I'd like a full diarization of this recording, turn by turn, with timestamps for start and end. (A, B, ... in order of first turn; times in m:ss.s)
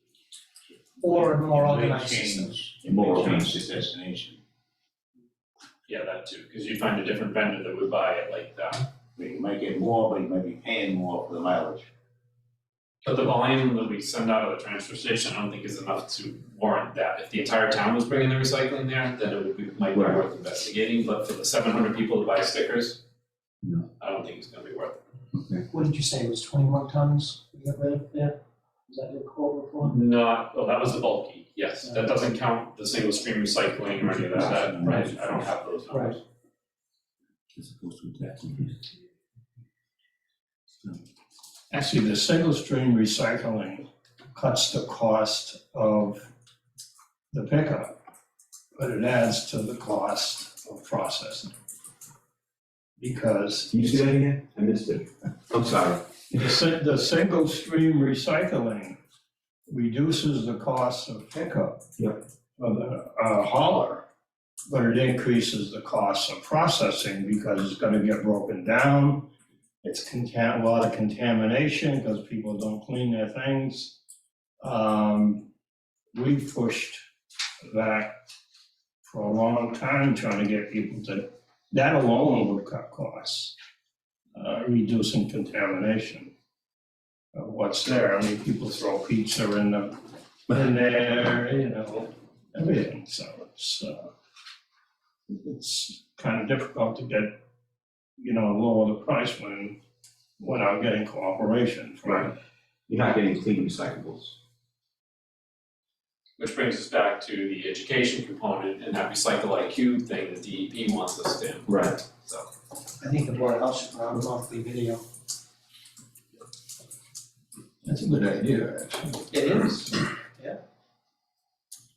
0:01.0-0:04.4 A
0:01.0-0:02.6 B
0:02.9-0:03.6 C
0:05.9-0:08.8 D
0:09.2-0:11.9 A
0:13.0-0:23.0 D
0:19.9-0:20.2 C
0:24.0-0:25.0 D
0:25.7-0:28.4 B
0:28.9-0:30.0 B
0:29.8-0:36.2 D
0:37.5-0:38.7 C
0:41.7-0:46.3 E
0:47.3-0:47.9 E
0:48.7-0:51.5 E
0:53.0-0:54.1 E
0:53.7-0:56.4 C
0:56.3-0:59.0 E
0:59.7-1:01.8 E
1:02.6-1:04.0 E
1:04.7-1:09.3 E
1:09.8-1:14.0 E
1:14.6-1:15.4 E
1:16.1-1:17.0 E
1:17.6-1:18.1 E
1:19.0-1:23.5 E
1:24.3-1:26.3 E
1:27.3-1:34.1 E
1:35.3-1:37.3 E
1:38.2-1:39.8 E
1:40.4-1:42.3 E
1:42.9-1:44.4 C
1:46.4-1:52.5 D
1:51.7-1:52.0 C
1:53.0-1:55.0 B
1:57.8-1:59.3 E
1:59.3-2:00.6 B